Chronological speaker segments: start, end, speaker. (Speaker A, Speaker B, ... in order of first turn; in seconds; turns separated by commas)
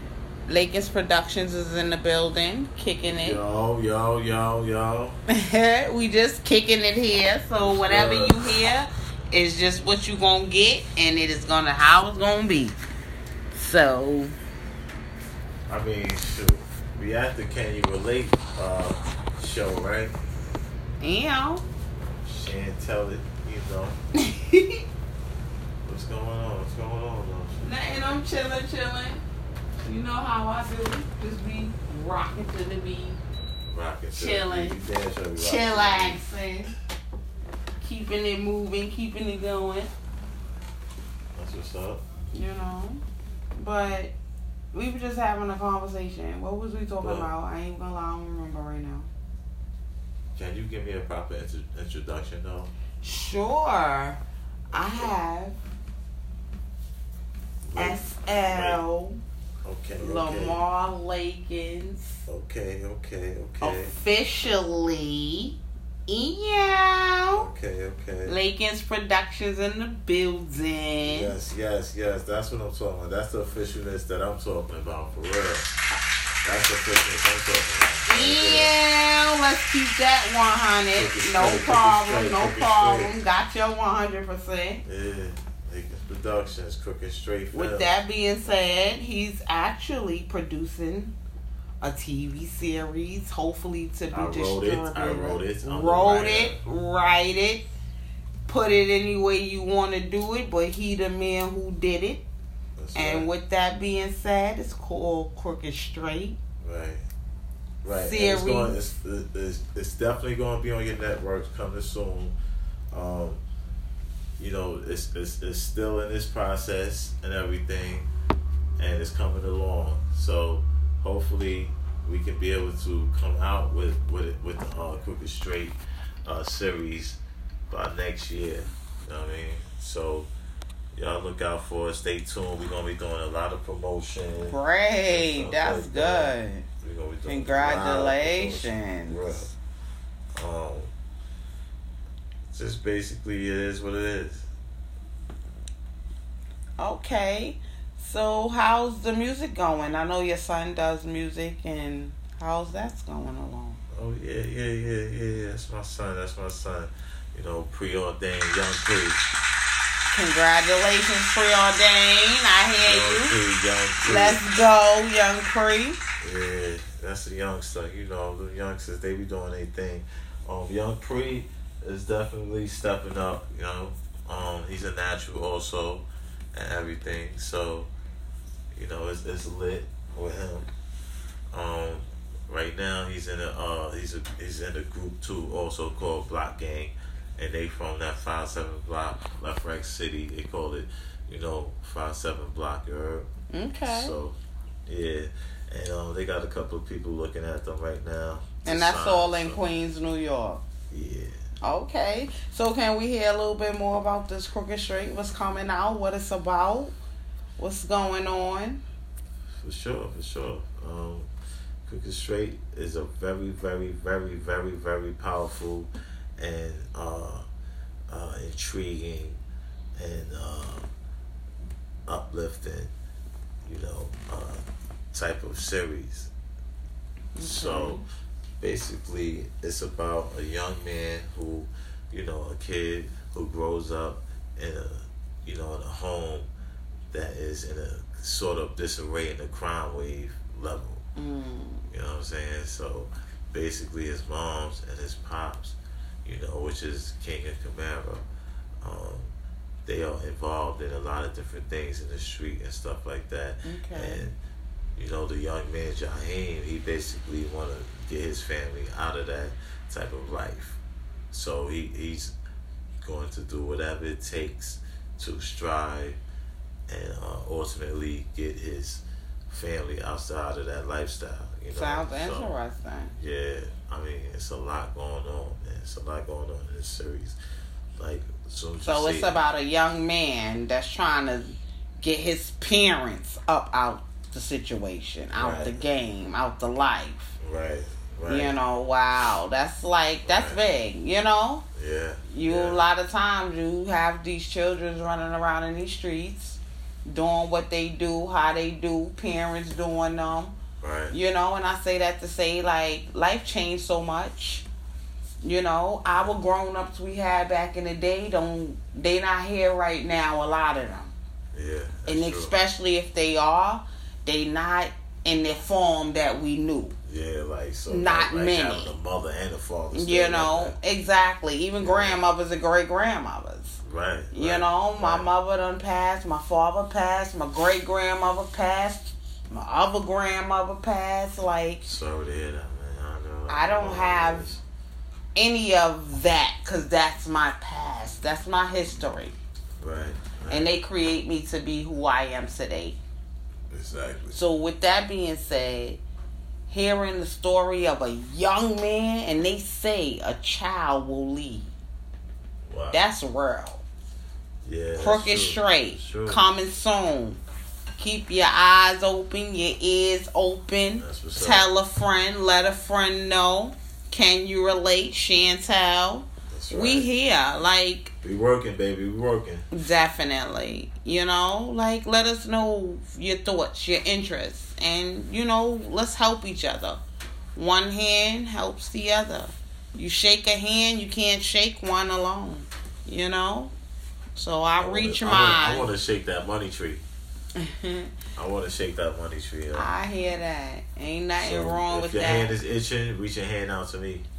Speaker A: 0.5-3.4, Speaker B: 3.1-5.2, Speaker A: 5.3-12.8, Speaker B: 7.6-8.4, Speaker A: 13.5-14.3, Speaker B: 15.7-20.1, Speaker A: 21.0-21.6, Speaker B: 22.2-24.0, Speaker A: 24.2-24.8, Speaker B: 25.9-27.7, Speaker A: 27.6-29.2, Speaker A: 29.8-33.2, Speaker B: 33.7-36.2, Speaker A: 34.1-34.8, Speaker A: 35.4-36.7, Speaker A: 37.8-39.9, Speaker B: 41.4-42.0, Speaker A: 42.3-43.0, Speaker A: 43.5-44.1, Speaker A: 44.7-49.1, Speaker B: 47.0-47.3, Speaker B: 50.4-52.7, Speaker A: 53.0-54.2, Speaker B: 54.7-55.1, Speaker A: 54.7-55.6, Speaker B: 57.7-58.8, Speaker A: 57.8-59.2, Speaker B: 59.6-60.6, Speaker A: 60.0-62.2, Speaker B: 62.3-63.9, Speaker A: 63.6-67.5, Speaker B: 67.3-68.4, Speaker A: 68.3-71.3, Speaker B: 71.0-75.7, Speaker B: 76.4-78.7, Speaker A: 78.1-84.8, Speaker B: 80.9-83.2, Speaker B: 84.8-87.9, Speaker A: 87.5-91.1, Speaker A: 91.8-97.7, Speaker B: 94.1-96.6, Speaker A: 98.5-102.2, Speaker B: 102.8-103.3, Speaker A: 103.0-106.4, Speaker B: 106.6-107.0, Speaker B: 107.8-112.4, Speaker A: 107.9-108.8, Speaker B: 112.9-113.4, Speaker B: 114.4-118.1, Speaker B: 118.8-127.2, Speaker B: 127.7-130.3, Speaker B: 130.9-134.6, Speaker A: 134.5-136.7, Speaker B: 135.1-139.5, Speaker A: 137.2-139.5, Speaker B: 140.4-140.9, Speaker B: 142.5-144.5, Speaker A: 146.8-153.8, Speaker B: 153.9-159.2, Speaker A: 160.1-163.4, Speaker B: 162.8-164.4, Speaker A: 164.0-166.0, Speaker B: 166.2-177.9, Speaker B: 178.7-180.7, Speaker B: 181.5-193.3, Speaker A: 193.5-194.2, Speaker B: 193.9-199.6, Speaker A: 198.6-200.6, Speaker B: 200.9-201.4, Speaker A: 201.6-206.9, Speaker A: 207.6-208.8, Speaker B: 209.6-211.3, Speaker B: 211.9-217.4, Speaker B: 218.1-219.4, Speaker B: 220.0-220.9, Speaker B: 222.1-222.9, Speaker B: 223.7-224.6, Speaker B: 225.1-226.3, Speaker A: 227.3-228.0, Speaker B: 227.4-228.0, Speaker B: 228.6-236.5, Speaker B: 237.1-241.0, Speaker A: 241.2-241.9, Speaker B: 241.9-248.2, Speaker B: 248.8-249.3, Speaker B: 249.8-254.4, Speaker A: 253.7-254.3, Speaker B: 255.0-260.8, Speaker B: 261.3-262.4, Speaker B: 263.0-266.2, Speaker B: 266.9-272.6, Speaker A: 271.7-273.2, Speaker B: 273.1-277.4, Speaker B: 278.0-279.4, Speaker A: 278.8-287.3, Speaker B: 285.4-285.8, Speaker B: 287.4-288.6, Speaker A: 288.3-291.6, Speaker B: 290.2-290.6, Speaker B: 291.8-292.9, Speaker A: 292.3-300.6, Speaker B: 300.8-301.2, Speaker A: 301.1-304.7, Speaker A: 305.4-311.1, Speaker B: 306.1-306.4, Speaker B: 311.5-312.6, Speaker A: 312.1-316.9, Speaker B: 317.1-320.8, Speaker A: 317.9-318.9, Speaker A: 319.9-323.8, Speaker B: 321.8-322.2, Speaker B: 323.8-325.3, Speaker A: 324.3-331.9, Speaker B: 331.8-334.6, Speaker A: 333.5-334.5, Speaker A: 335.4-339.4, Speaker B: 339.8-340.7, Speaker A: 340.5-343.0, Speaker B: 343.7-344.4, Speaker A: 344.3-346.0, Speaker A: 346.7-351.7, Speaker B: 352.7-353.0, Speaker A: 352.9-353.8, Speaker B: 354.6-356.4, Speaker A: 355.0-357.4, Speaker A: 358.0-368.1, Speaker B: 361.0-361.7, Speaker B: 366.5-367.1, Speaker B: 368.2-369.7, Speaker A: 369.7-377.0, Speaker A: 377.6-383.7, Speaker A: 384.4-385.9, Speaker B: 384.8-387.0, Speaker A: 387.6-388.1, Speaker B: 388.4-389.9, Speaker A: 389.7-392.6, Speaker B: 391.4-394.2